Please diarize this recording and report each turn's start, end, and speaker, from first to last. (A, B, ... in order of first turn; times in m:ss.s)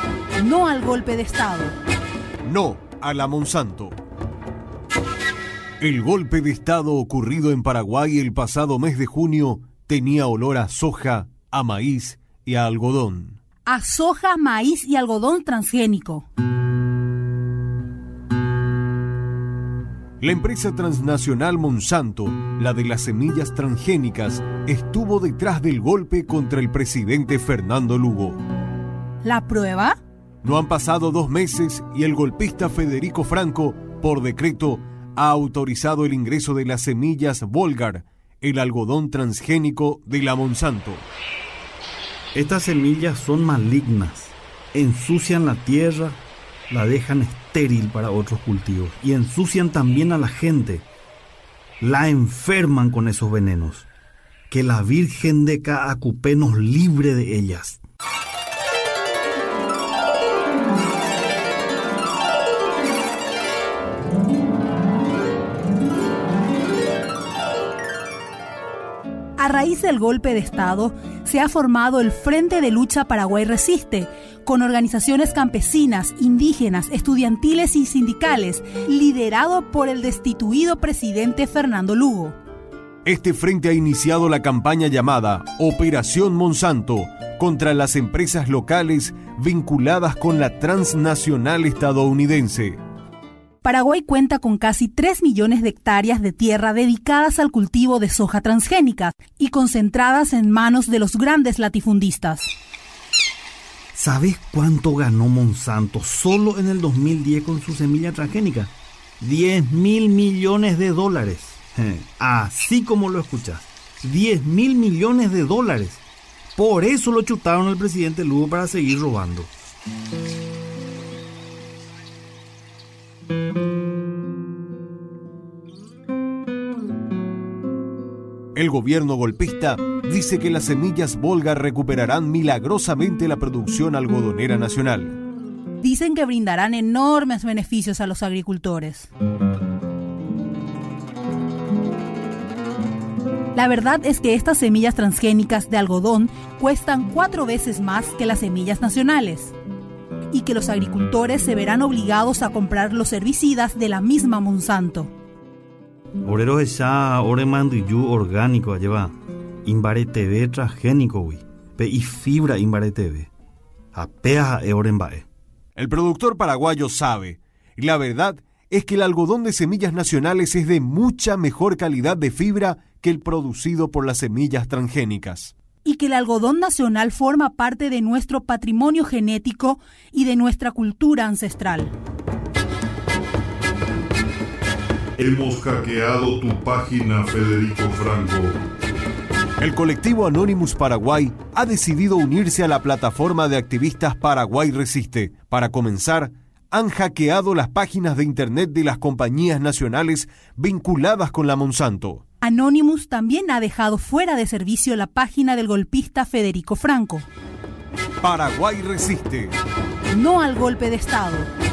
0:00.4-0:01.8 A
0:02.4-0:04.0 B
0:05.8-0:13.4 B
0:13.7-0:16.3 A
0:20.2-0:28.4 B
0:29.2-0:30.0 A
0:30.4-0:41.1 B
0:42.3-0:50.9 C
0:51.8-0:53.9 C
0:54.5-0:57.8 C
1:09.4-1:22.4 A
1:23.0-1:32.8 B
1:33.6-1:42.5 A
1:44.0-1:56.0 C
1:56.6-1:59.5 C
2:08.6-2:15.2 B
2:15.8-2:19.1 A
2:23.6-2:29.5 A
2:30.3-2:35.1 A
2:36.2-2:39.1 C
2:39.6-2:43.3 C
2:43.9-2:45.3 C
2:45.8-2:55.5 B
2:55.8-3:01.9 A
3:05.2-3:08.6 D
3:09.6-3:22.2 B
3:22.4-3:27.3 A
3:28.2-3:29.6 B
3:30.1-3:31.5 A